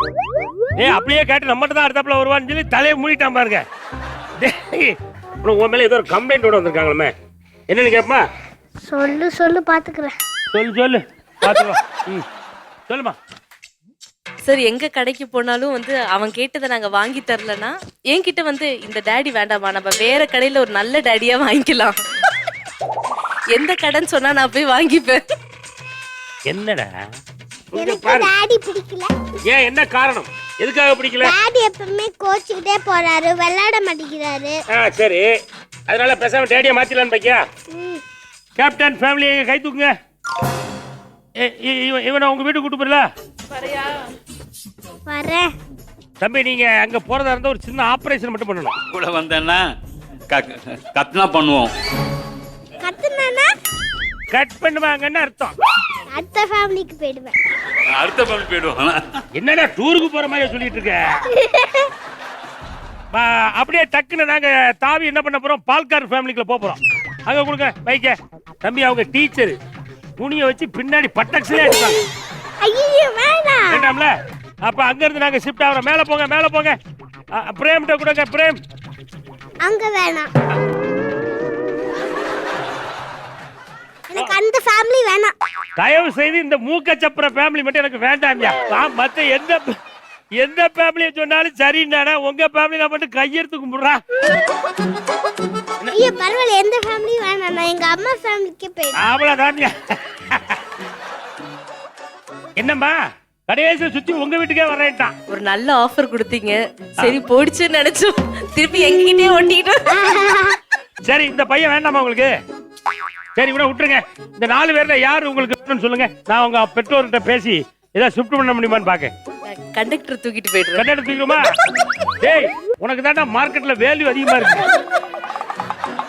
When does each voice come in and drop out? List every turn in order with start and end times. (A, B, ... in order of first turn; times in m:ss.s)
0:00.8-0:03.6 A
0:04.4-0:07.1 A
0:07.7-0:08.2 A
0:08.9-0:10.1 B
0:10.5-0:12.3 A
0:12.9-0:13.2 A
0:14.4-0:22.0 C
0:23.5-0:25.3 C
0:26.5-0:26.9 A
0:27.8-0:28.3 A
0:27.8-0:29.1 B
0:29.5-0:31.4 A
0:31.2-0:34.6 B
0:34.7-0:35.3 A
0:35.9-0:37.4 A
0:37.7-0:38.0 B
0:38.6-0:39.9 A
0:41.4-0:43.0 A
0:45.1-0:45.5 B
0:46.2-0:48.8 A
0:48.9-0:49.7 D
0:50.3-0:51.7 D
0:52.8-0:53.5 B
0:54.3-0:55.5 A
0:56.1-0:57.3 B
0:57.9-0:59.0 D
0:59.4-1:01.1 A
1:03.1-1:09.6 A
1:10.2-1:12.0 A
1:12.6-1:13.9 B
1:13.7-1:14.1 A
1:14.6-1:16.8 A
1:17.4-1:18.6 A
1:19.6-1:20.3 B
1:24.1-1:25.3 B
1:25.8-1:29.7 A
1:30.4-1:34.0 A
1:35.9-1:39.0 B
1:39.0-1:40.6 A
1:42.6-1:43.0 A
1:43.5-1:45.1 A
1:45.3-1:49.9 C
1:49.9-1:50.6 B
1:51.1-1:52.3 A
1:53.4-1:59.1 A
1:59.5-2:00.9 C
2:00.7-2:01.5 A
2:02.2-2:04.7 A